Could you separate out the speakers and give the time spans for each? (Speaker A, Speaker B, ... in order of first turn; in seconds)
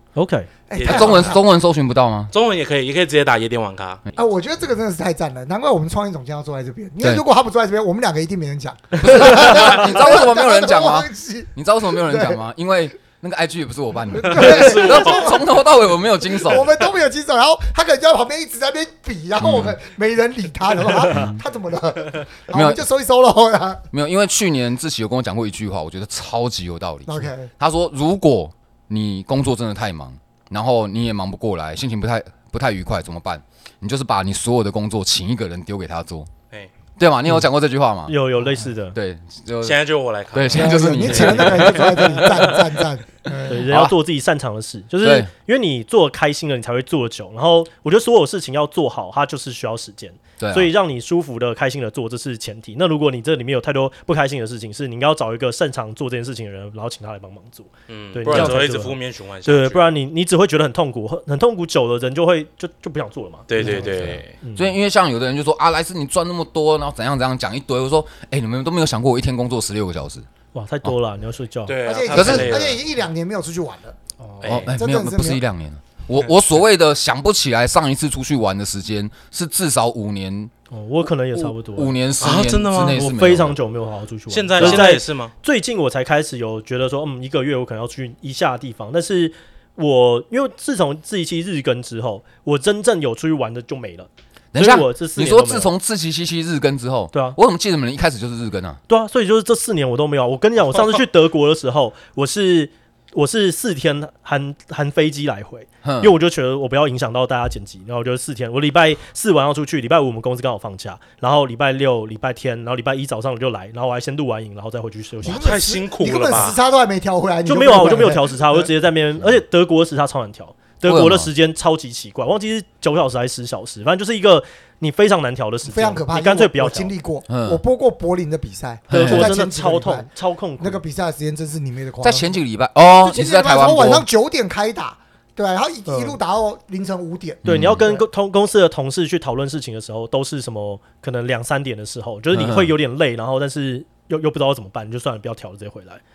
Speaker A: 0.1-0.5, 38.1-39.0, 41.0-41.8, 43.5-64.8, 70.5-71.8, 74.2-74.6, 80.7-82.0, 82.8-95.7, 98.9-115.6, 117.5-126.9, 128.9-130.8, 137.4-146.0
Speaker B: 0.7-1.4, 4.1-12.4, 14.1-15.5, 16.3-23.8, 27.1-27.5, 40.5-43.6, 71.8-74.0, 74.7-75.4, 115.2-118.7, 125.6-130.1, 130.6-132.3, 132.9-138.0
Speaker C: 0.7-1.4, 2.3-4.0, 14.3-15.4, 39.6-42.7, 57.9-59.9, 63.5-64.3, 71.7-72.8, 74.4-74.7, 82.2-83.0, 84.3-85.3, 115.2-116.6
Speaker D: 0.8-2.3, 9.0-16.8, 19.4-19.8, 21.0-21.4, 22.5-22.9, 23.9-36.3, 37.0-38.1, 38.9-39.8, 40.3-41.9, 43.7-43.9, 45.0-45.3, 50.4-50.7, 58.3-58.6, 64.5-70.3, 72.1-72.6, 74.4-80.5, 81.3-83.6, 84.6-84.9, 94.5-98.8, 105.8-106.1, 120.8-121.3, 127.3-127.6, 128.9-129.3, 132.0-134.1, 137.4-137.9, 142.3-142.7